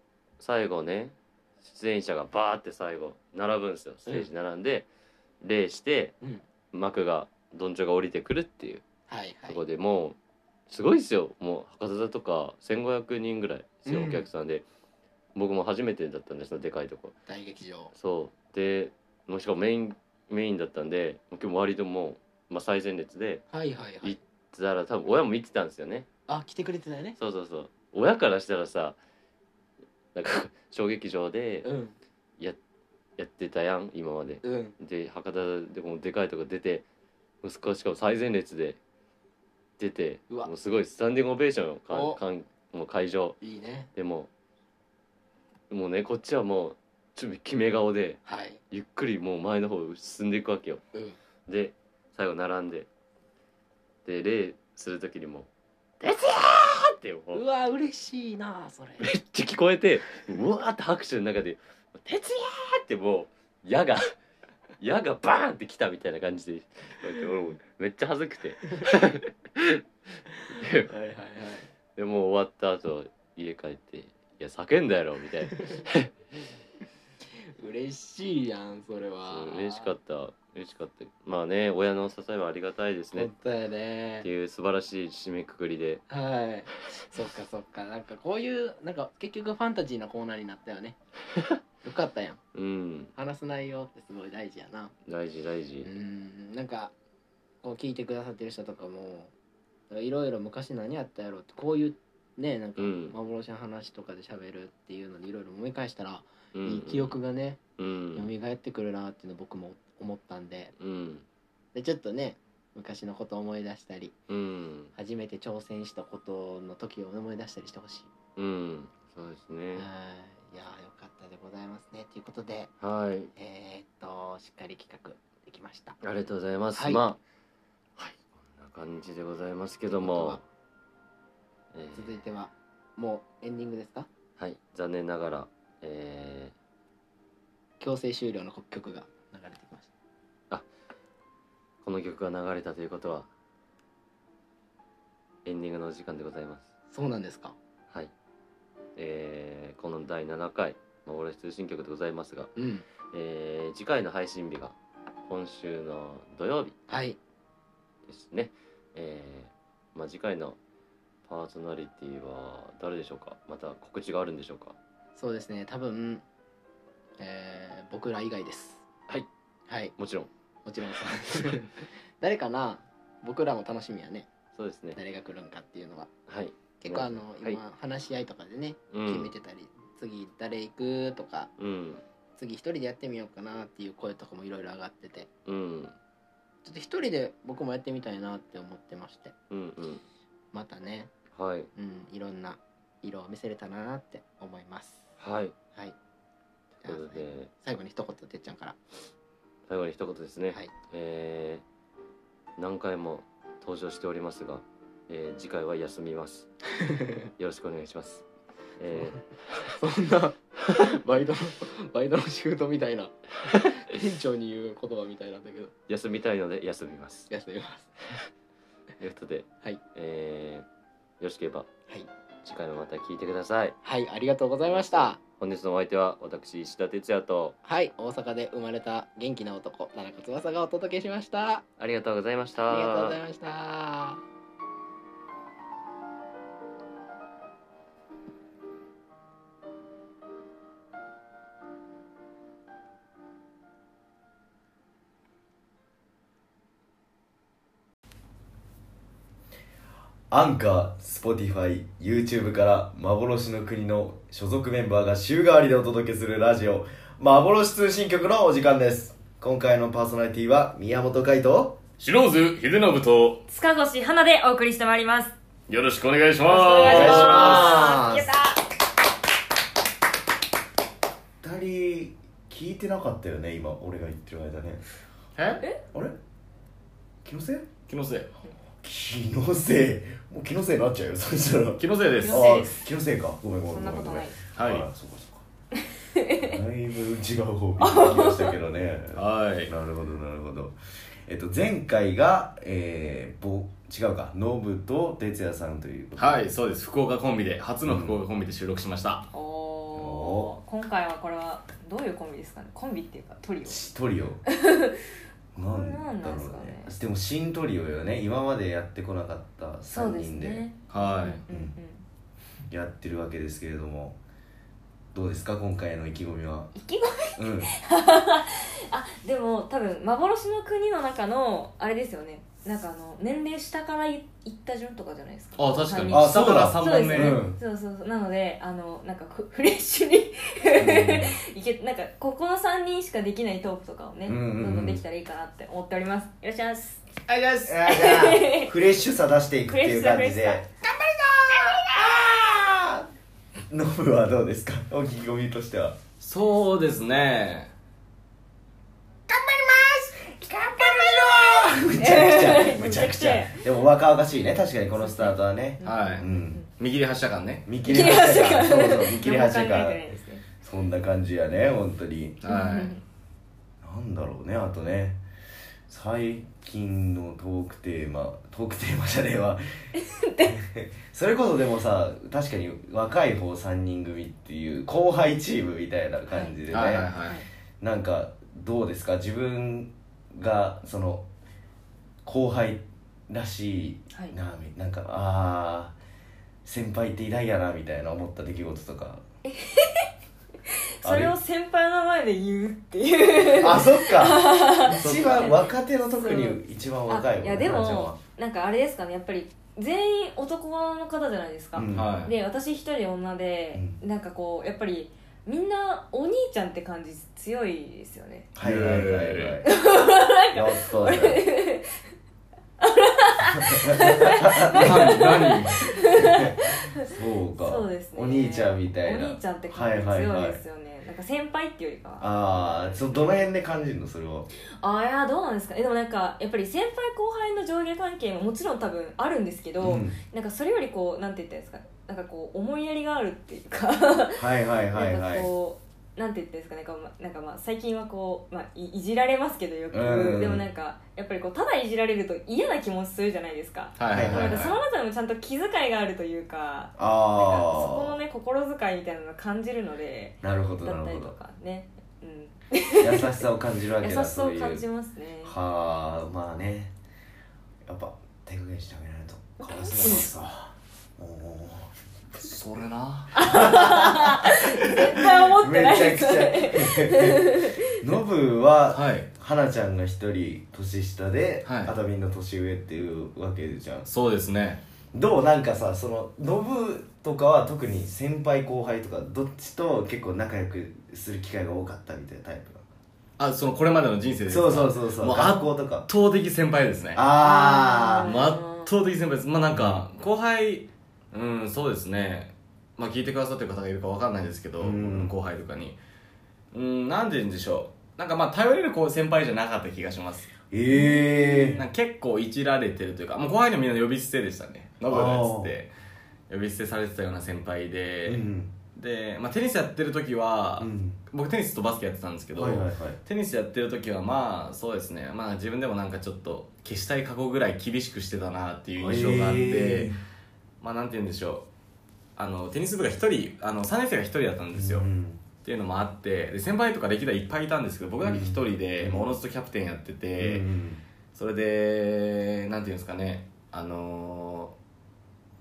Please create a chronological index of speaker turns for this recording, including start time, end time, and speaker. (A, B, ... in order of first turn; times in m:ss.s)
0:00.4-0:04.9 A
0:05.4-0:06.2 A
0:06.7-0:08.8 A
0:09.1-0:09.6 B
0:09.5-0:10.2 A
0:10.7-0:14.6 A
0:13.8-0:14.3 B
0:15.4-0:17.1 A
0:17.3-0:17.9 B
0:17.9-0:23.4 A
0:23.5-0:24.2 B
0:24.0-0:26.1 A
0:26.3-0:27.2 B
0:27.2-0:29.0 A
0:30.2-0:31.7 A
0:31.6-0:32.0 B
0:33.2-0:36.9 A
0:34.4-0:34.8 B
0:37.4-0:38.8 A
0:39.8-0:43.4 A
0:41.9-0:42.2 B
0:43.4-0:43.9 B
0:44.0-0:44.3 A
0:45.7-0:50.8 A
0:48.3-0:48.6 B
0:51.5-0:52.9 A
0:54.0-0:55.5 A
0:56.0-0:57.4 A
0:57.3-0:59.1 B
0:59.0-1:04.1 A
1:04.8-1:09.8 A
1:10.5-1:10.9 A
1:10.9-1:11.7 B
1:12.0-1:16.2 A
1:17.6-1:19.9 B
1:19.3-1:23.3 A
1:23.1-1:24.3 B
1:24.2-1:26.0 A
1:26.1-1:31.0 B
1:31.8-1:32.4 B
1:32.5-1:33.1 A
1:33.2-1:34.9 B
1:35.1-1:35.9 A
1:35.8-1:36.9 B
1:37.6-1:39.3 B
1:39.9-1:47.6 B
1:42.8-1:43.2 A
1:46.5-1:47.2 A
1:47.8-1:48.3 A
1:48.1-1:50.7 B
1:50.8-1:51.2 A
1:51.7-1:54.2 B
1:54.3-1:54.9 A
1:55.0-1:58.1 B
1:58.4-1:59.9 A
1:59.8-2:02.7 B
2:02.8-2:03.3 A
2:03.4-2:06.0 B
2:06.0-2:07.2 A
2:06.8-2:07.0 B
2:08.0-2:10.4 A
2:10.0-2:10.4 B
2:11.7-2:12.2 A
2:12.0-2:14.1 B
2:14.4-2:16.5 A
2:17.8-2:19.9 B
2:21.8-2:23.3 A
2:25.4-2:26.7 A
2:26.9-2:27.6 B
2:29.0-2:32.5 A
2:32.6-2:32.8 B
2:33.1-2:36.8 A
2:36.9-2:37.2 B
2:38.1-2:40.6 A
2:41.3-2:44.8 A
2:45.2-2:46.2 B
2:47.2-2:48.8 B
2:49.7-2:49.9 B
2:50.0-2:50.3 A
2:50.6-2:54.3 B
2:54.5-2:55.0 A
2:55.0-2:56.1 B
2:56.3-2:57.6 A
2:56.8-3:01.5 B
2:58.9-2:59.3 A
3:01.6-3:02.0 A
3:02.4-3:05.3 B
3:05.5-3:06.0 A
3:06.6-3:09.3 B
3:09.5-3:10.0 A
3:10.5-3:11.1 B
3:11.3-3:11.7 A
3:11.8-3:15.1 B
3:15.2-3:15.6 A
3:16.8-3:18.8 B
3:16.8-3:17.5 A
3:19.7-3:21.6 A
3:22.6-3:26.5 A
3:26.8-3:27.2 B
3:27.4-3:28.2 A
3:28.8-3:29.7 A
3:29.7-3:35.7 B
3:35.9-3:37.3 A
3:37.3-3:38.0 B
3:39.0-3:40.7 A
3:41.2-3:41.7 A
3:42.4-3:43.8 A
3:43.8-3:45.2 B
3:44.6-3:47.6 A
3:47.6-3:51.6 B
3:51.8-3:53.2 A
3:52.7-3:54.2 B
4:10.3-4:21.8 C
4:22.0-4:23.4 D
4:23.5-4:25.4 E
4:25.7-4:28.0 D
4:26.5-4:28.6 E
4:26.7-4:28.3 C
4:31.4-4:34.8 C
4:35.4-4:35.6 D
4:37.2-4:37.7 C
4:37.9-4:38.3 D
4:38.8-4:45.4 C
4:41.8-4:42.6 D
4:42.2-4:42.8 E
4:43.7-4:44.4 E
4:44.6-4:44.9 D
4:46.2-4:46.6 E
4:46.4-4:50.8 C
4:47.8-4:48.6 E
4:49.1-4:49.7 D
4:51.3-4:56.5 C
4:56.2-4:59.3 D
4:57.9-4:58.2 C
4:59.3-5:03.9 E
5:00.0-5:00.5 C
5:03.6-5:04.4 C
5:04.5-5:05.0 E
5:05.6-5:10.6 C
5:05.6-5:06.9 E
5:09.9-5:12.0 E
5:10.9-5:11.4 D
5:11.5-5:11.8 C
5:12.7-5:14.2 C
5:15.1-5:16.7 C
5:16.8-5:37.2 E
5:17.4-5:17.7 C
5:25.6-5:27.5 D
5:26.1-5:27.6 C
5:30.8-5:31.4 C
5:34.3-5:35.0 C
5:37.3-5:37.6 D
5:37.6-5:40.7 C
5:37.8-5:38.7 E
5:39.7-5:40.6 E
5:41.3-5:43.1 C
5:43.7-5:46.0 C
5:46.2-5:47.7 D
5:49.3-5:56.6 C
5:50.8-5:53.6 E
5:55.0-5:56.7 E
5:55.8-5:57.7 D
5:57.7-6:00.1 C
5:57.8-6:00.4 E
6:00.6-6:02.4 C
6:02.4-6:03.0 D
6:02.5-6:03.0 E
6:03.8-6:05.2 C
6:05.9-6:17.1 C
6:10.0-6:10.5 E
6:16.3-6:16.6 E
6:16.7-6:17.4 D
6:17.8-6:21.3 C
6:22.2-6:26.0 C
6:26.6-6:29.2 C
6:29.5-6:30.1 E
6:31.0-6:48.5 E
6:31.0-6:31.3 C
6:33.4-6:38.2 C
6:35.0-6:35.7 D
6:41.8-6:42.2 C
6:41.9-6:42.3 D
6:43.7-6:44.0 C
6:48.6-6:49.7 C
6:48.6-6:49.6 D
6:49.6-6:52.0 E
6:50.5-6:51.4 C
6:52.8-7:03.5 E
6:53.4-7:00.6 C
6:54.7-6:55.9 D
7:02.2-7:04.5 C
7:04.8-7:33.5 E
7:09.8-7:10.2 C
7:14.4-7:15.5 C
7:19.9-7:20.7 C
7:24.0-7:24.7 D
7:24.1-7:24.8 C
7:27.0-7:28.2 C
7:30.4-7:31.4 C
7:33.0-7:34.8 C
7:34.0-7:35.6 E
7:35.4-7:36.9 C
7:37.9-7:41.9 C
7:39.6-7:40.3 E
7:42.4-7:43.3 D
7:43.4-7:48.1 E
7:43.4-7:54.1 C
7:48.9-7:49.3 D
7:51.6-7:51.9 D
7:54.1-7:54.8 D
7:55.1-8:02.8 C
8:03.4-8:07.2 D
8:04.5-8:06.1 C
8:07.2-8:08.3 C
8:07.4-8:08.9 E
8:08.2-8:16.0 D
8:09.7-8:10.0 C
8:14.8-8:15.4 C
8:16.7-8:20.5 D
8:20.7-8:21.8 C
8:20.9-8:21.8 E
8:21.7-8:25.9 D
8:25.1-8:25.7 C
8:26.5-8:40.1 D
8:28.2-8:28.8 C
8:30.8-8:31.2 C
8:32.5-8:33.2 C
8:39.0-8:40.2 C
8:40.8-8:41.7 D
8:42.4-8:45.1 D
8:44.7-8:45.4 C
8:45.6-8:50.7 D
8:48.2-8:49.4 C
8:50.4-8:51.0 C
8:51.3-8:54.8 D